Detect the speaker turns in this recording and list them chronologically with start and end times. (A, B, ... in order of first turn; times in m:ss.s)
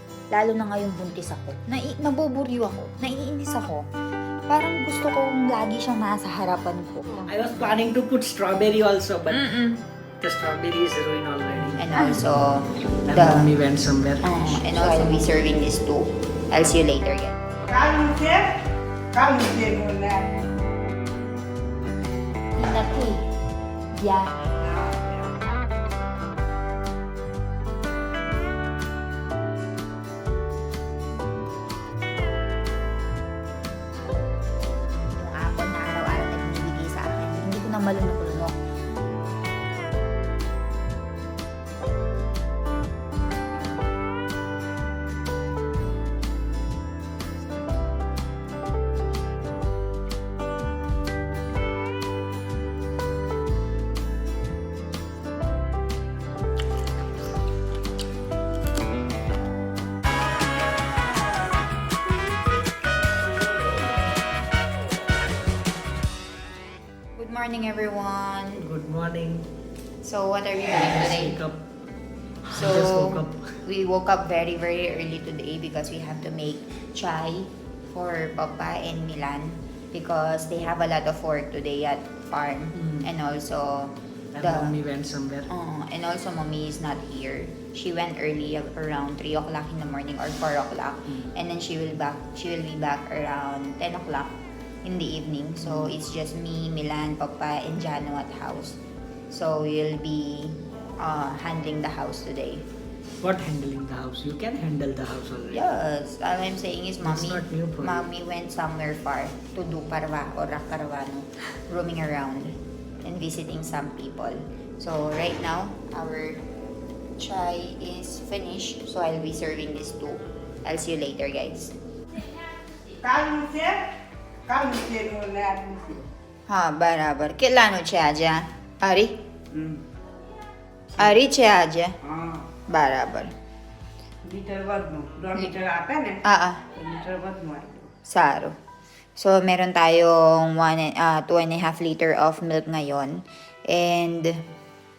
0:00.3-0:03.8 A
0:04.5-0:07.3 A
0:07.3-0:09.5 B
0:09.3-0:09.8 A
0:10.2-0:12.3 B
0:11.8-0:13.5 A
0:13.1-0:15.3 B
0:14.2-0:17.4 A
0:17.7-0:20.3 C
0:22.6-0:23.3 A
0:24.0-0:24.3 A
0:24.5-0:25.3 C
0:35.1-0:38.6 A
1:07.2-1:08.6 A
1:08.6-1:09.5 B
1:10.0-1:11.4 A
1:10.7-1:11.6 B
1:12.5-1:13.6 B
1:12.5-1:24.8 A
1:22.8-1:23.1 B
1:24.3-1:25.5 B
1:25.5-1:42.6 A
1:35.6-1:35.9 B
1:43.2-1:45.6 B
1:45.5-1:56.4 A
1:47.0-1:48.0 B
1:57.2-2:01.8 A
2:03.0-2:06.1 C
2:06.5-2:09.2 A
2:09.5-2:09.8 C
2:10.9-2:12.0 A
2:12.0-2:12.5 C
2:12.7-2:13.3 A
2:14.2-2:16.2 C
2:16.2-2:16.7 A
2:16.7-2:17.9 C
2:18.1-2:18.6 A
2:19.2-2:24.4 A